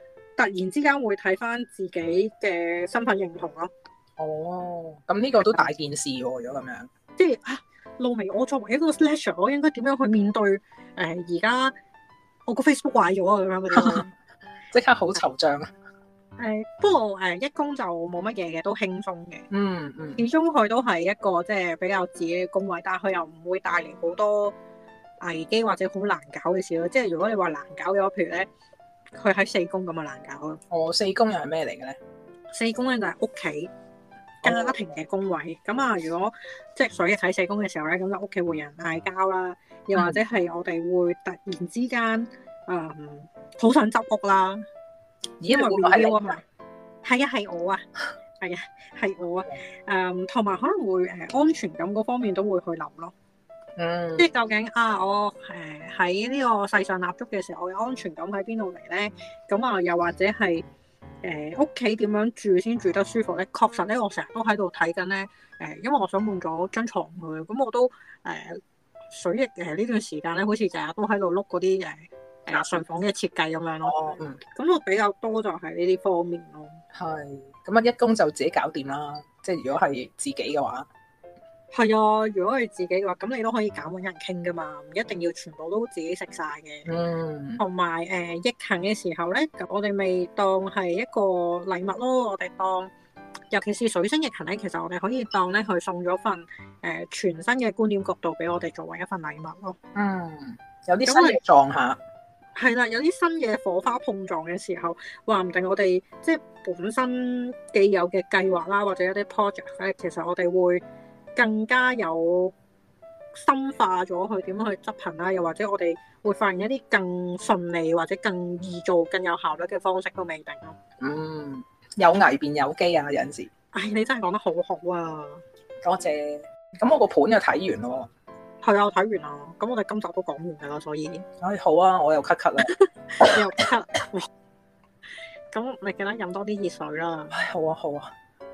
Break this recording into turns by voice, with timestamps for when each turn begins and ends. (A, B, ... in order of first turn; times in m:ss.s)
0:00.4-0:03.7 A
0:04.2-0:06.9 B
0:07.2-0:11.8 A
0:12.4-0:14.1 A
0:13.7-0:14.1 B
0:14.7-0:15.7 B
0:16.4-0:19.4 A
0:19.5-0:20.2 B
0:20.2-0:24.5 A
0:25.2-0:28.5 A
0:29.2-0:30.6 A
0:30.7-0:32.0 B
0:32.5-0:33.7 A
0:34.4-0:44.6 A
0:34.4-0:34.7 B
0:45.4-0:46.4 B
0:45.5-0:46.4 A
0:47.0-0:47.8 A
0:48.4-0:53.1 A
0:53.8-0:54.3 B
0:54.2-1:00.6 A
1:01.2-1:16.8 A
1:13.8-1:14.4 B
1:16.9-1:20.9 B
1:21.7-1:26.8 A
1:26.8-1:27.6 B
1:27.6-1:32.9 A
1:33.5-1:39.8 A
1:39.9-1:42.0 B
1:41.1-1:41.4 A
1:42.6-1:50.8 A
1:51.4-1:52.5 A
1:53.3-2:00.8 A
2:01.0-2:03.5 B
2:03.7-2:05.4 A
2:05.8-2:08.1 B
2:08.6-2:11.2 A
2:11.4-2:13.4 B
2:12.6-2:14.3 A
2:15.5-2:17.3 A
2:17.3-2:18.1 B